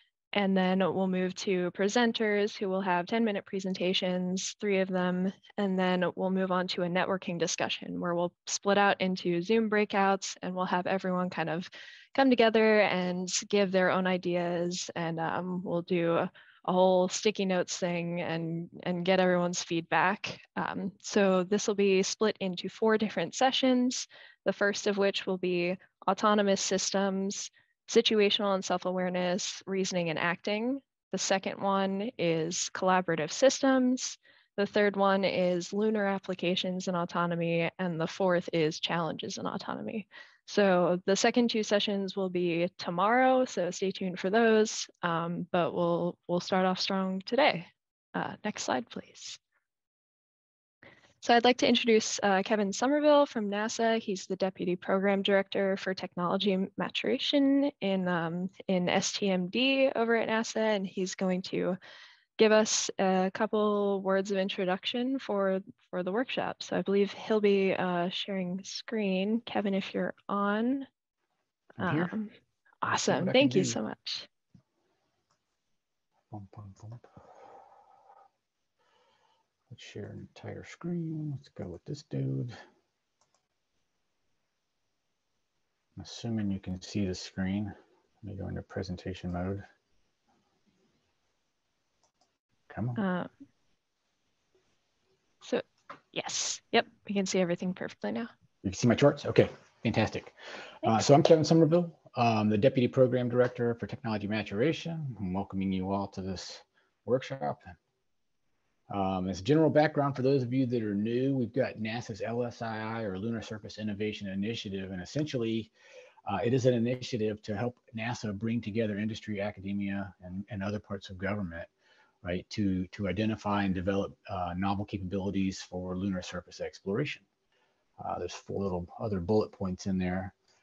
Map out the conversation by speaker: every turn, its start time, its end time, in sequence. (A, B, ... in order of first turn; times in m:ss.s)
0:00.3-0:49.4 A
0:51.2-1:01.8 A
1:02.4-1:10.9 A
1:11.8-1:12.1 B
1:11.8-1:12.3 A
1:12.8-1:14.3 A
1:12.9-1:13.8 B
1:16.3-1:17.0 B
1:19.7-1:22.6 B
1:26.0-1:29.6 B
1:32.7-1:33.0 B
1:33.0-1:33.3 A
1:35.4-1:38.3 A
1:38.6-1:47.7 B
1:48.9-1:55.7 B
1:56.3-2:01.7 B
2:02.2-2:07.2 B
2:08.0-2:10.3 B